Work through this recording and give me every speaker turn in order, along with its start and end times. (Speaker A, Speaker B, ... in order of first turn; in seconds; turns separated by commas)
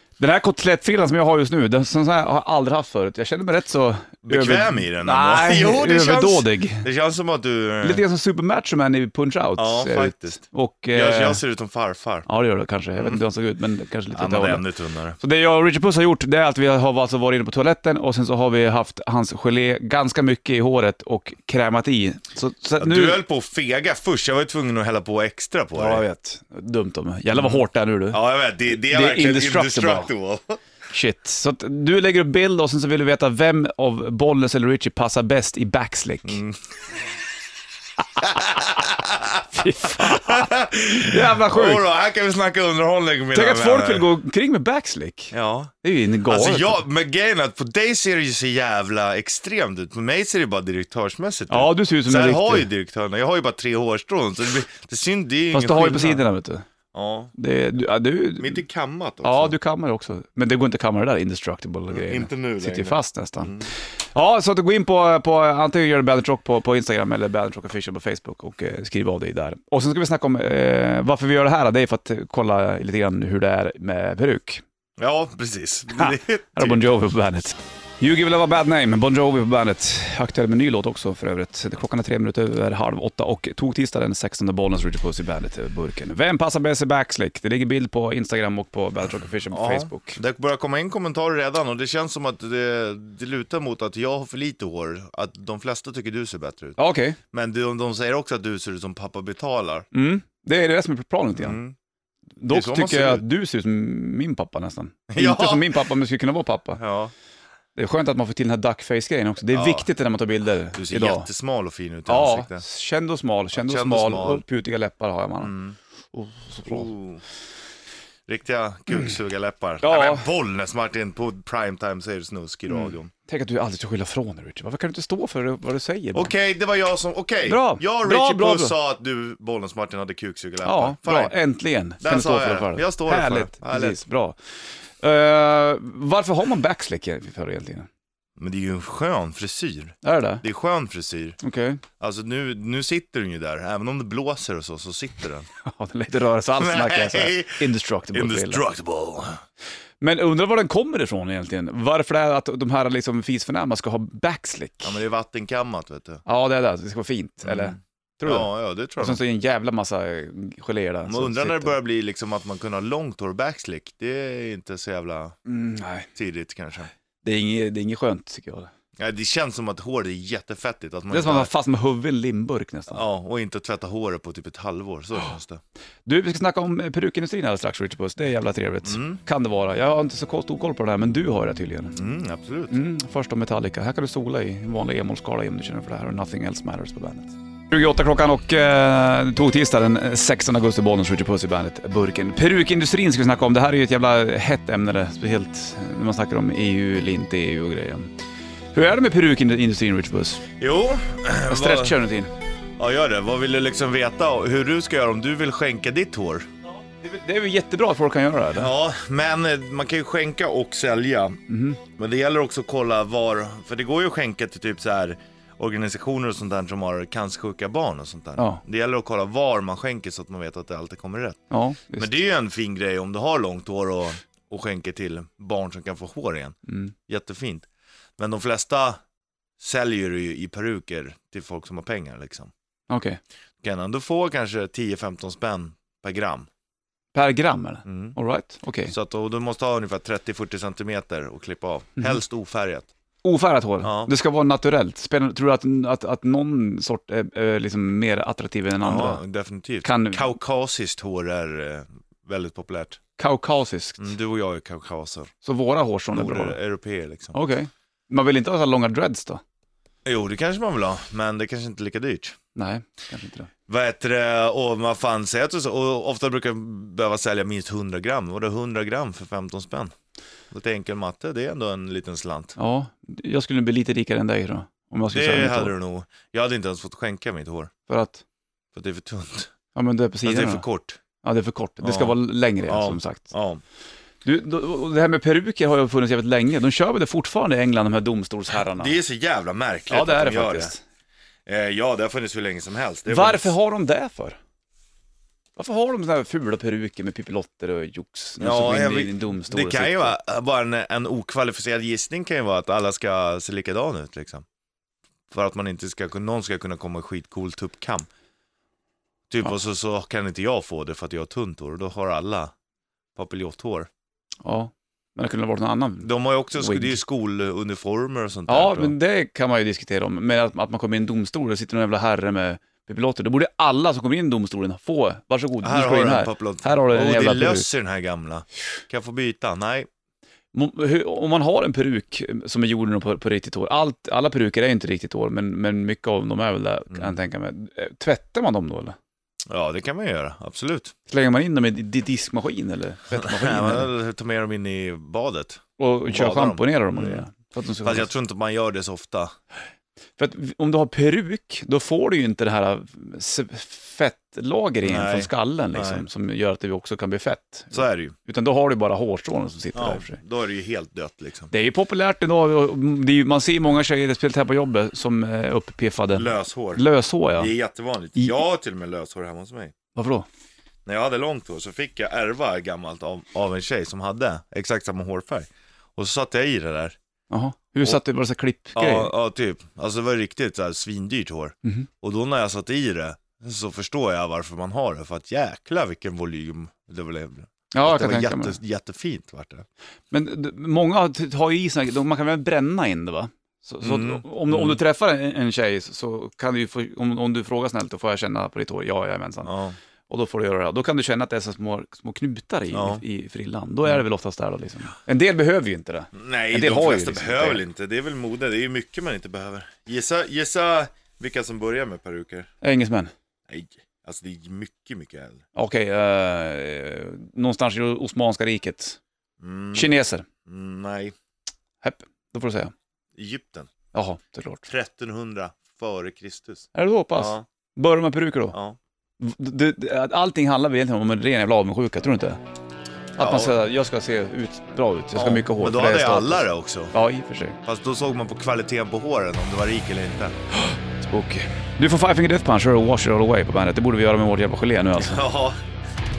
Speaker A: 0.2-6.8, Speaker B: 4.2-8.0, Speaker A: 7.8-11.4, Speaker B: 9.6-10.4, Speaker B: 10.9-12.3, Speaker A: 12.3-14.6, Speaker B: 14.1-15.2, Speaker A: 15.2-23.2, Speaker B: 22.8-26.0, Speaker A: 25.8-30.1, Speaker B: 27.3-30.6, Speaker A: 30.9-36.4, Speaker B: 36.2-36.6, Speaker A: 38.2-41.9, Speaker B: 38.2-44.1, Speaker A: 43.3-46.8, Speaker B: 45.3-45.7, Speaker B: 46.2-56.2, Speaker A: 51.5-52.7, Speaker A: 55.5-56.7, Speaker B: 56.9-57.3, Speaker A: 57.3-58.6, Speaker B: 58.4-59.5, Speaker A: 59.2-74.6, Speaker B: 61.9-63.7, Speaker B: 75.0-76.8, Speaker A: 75.9-90.2, Speaker B: 89.5-96.8, Speaker A: 96.8-97.2, Speaker B: 97.3-99.8, Speaker A: 99.9-101.6, Speaker B: 101.3-101.7, Speaker A: 102.4-106.8, Speaker B: 102.5-103.2, Speaker B: 105.1-105.8, Speaker B: 106.8-107.1, Speaker A: 107.7-111.3, Speaker B: 109.5-109.9, Speaker B: 110.7-112.6, Speaker A: 112.1-115.5, Speaker B: 113.5-114.4, Speaker B: 115.4-115.8, Speaker A: 116.1-116.9, Speaker B: 116.6-117.2, Speaker B: 118.3-123.1, Speaker A: 119.8-120.2, Speaker A: 122.7-126.3, Speaker B: 126.1-131.3, Speaker A: 127.4-128.7, Speaker A: 130.6-134.4, Speaker B: 132.0-134.0, Speaker A: 135.0-137.9, Speaker B: 138.4-141.4, Speaker A: 140.0-140.4, Speaker A: 141.4-141.8, Speaker B: 142.0-145.5, Speaker A: 145.6-148.6, Speaker B: 146.6-149.4, Speaker A: 150.0-154.9, Speaker B: 154.8-156.2, Speaker A: 156.2-161.8, Speaker B: 157.4-159.2, Speaker B: 161.1-165.3, Speaker A: 165.4-166.1, Speaker B: 166.1-166.9, Speaker A: 167.2-168.7, Speaker B: 169.0-171.5, Speaker A: 171.1-173.0, Speaker B: 172.9-175.6, Speaker A: 176.1-182.0, Speaker B: 178.8-179.2, Speaker B: 181.9-182.8, Speaker A: 182.7-198.1, Speaker A: 198.7-200.4, Speaker B: 200.6-202.0, Speaker A: 201.5-202.3, Speaker B: 202.8-206.4, Speaker A: 207.0-208.7, Speaker B: 208.5-211.4, Speaker A: 211.5-211.8, Speaker B: 212.0-221.4, Speaker A: 218.4-218.6, Speaker A: 221.5-222.1, Speaker B: 222.0-226.6, Speaker B: 227.1-227.7, Speaker B: 228.2-229.0, Speaker B: 229.6-232.5, Speaker A: 232.9-233.2, Speaker B: 233.6-236.5, Speaker A: 237.1-238.9, Speaker B: 237.8-238.2, Speaker B: 238.9-242.9, Speaker A: 243.2-249.2, Speaker B: 243.8-244.1, Speaker B: 248.8-253.0, Speaker A: 249.8-250.3, Speaker A: 253.2-254.1, Speaker B: 254.0-255.3, Speaker A: 255.4-256.6, Speaker B: 256.1-257.4, Speaker A: 257.3-259.4, Speaker B: 260.0-262.4, Speaker A: 262.5-263.5, Speaker B: 263.7-269.9, Speaker B: 270.5-272.6, Speaker A: 272.6-275.7, Speaker B: 275.1-277.7, Speaker A: 277.9-278.2, Speaker B: 278.7-279.5, Speaker A: 279.7-280.6, Speaker B: 280.2-281.0, Speaker A: 281.2-283.3, Speaker B: 281.8-283.6, Speaker A: 284.2-289.0, Speaker B: 288.7-290.7, Speaker A: 289.9-290.8, Speaker B: 291.5-293.5, Speaker A: 293.1-294.4, Speaker A: 295.6-300.1, Speaker B: 298.4-304.4, Speaker B: 305.3-308.1, Speaker B: 309.3-312.5, Speaker B: 313.1-313.9, Speaker A: 314.4-317.0, Speaker B: 316.0-318.9, Speaker A: 318.5-327.7, Speaker B: 325.6-329.9, Speaker A: 330.5-338.9, Speaker B: 339.5-340.9, Speaker A: 341.1-343.9, Speaker B: 343.1-347.2, Speaker A: 345.8-348.1, Speaker B: 347.8-349.3, Speaker A: 350.2-360.2, Speaker B: 354.8-356.1, Speaker B: 357.7-358.1, Speaker B: 359.7-361.5, Speaker A: 361.5-367.5, Speaker B: 366.1-366.8, Speaker B: 367.4-369.7, Speaker A: 369.9-370.2, Speaker B: 370.8-376.9, Speaker A: 377.3-379.1, Speaker B: 378.7-389.6, Speaker A: 387.7-388.6, Speaker A: 390.1-399.5, Speaker B: 393.8-394.8, Speaker B: 399.4-399.8, Speaker A: 400.1-407.6, Speaker B: 402.7-403.0, Speaker B: 406.1-412.5, Speaker A: 412.6-413.1, Speaker B: 413.5-415.4, Speaker A: 415.5-419.0, Speaker B: 419.4-419.9, Speaker A: 419.7-420.2, Speaker B: 420.4-421.1, Speaker A: 421.8-422.7, Speaker B: 423.1-423.7, Speaker A: 423.9-424.7, Speaker B: 424.7-427.4, Speaker A: 426.7-428.6, Speaker A: 429.2-432.4, Speaker A: 433.2-437.6, Speaker B: 433.2-433.6, Speaker B: 435.1-436.9, Speaker B: 437.6-440.3, Speaker A: 440.6-445.2, Speaker B: 444.9-445.6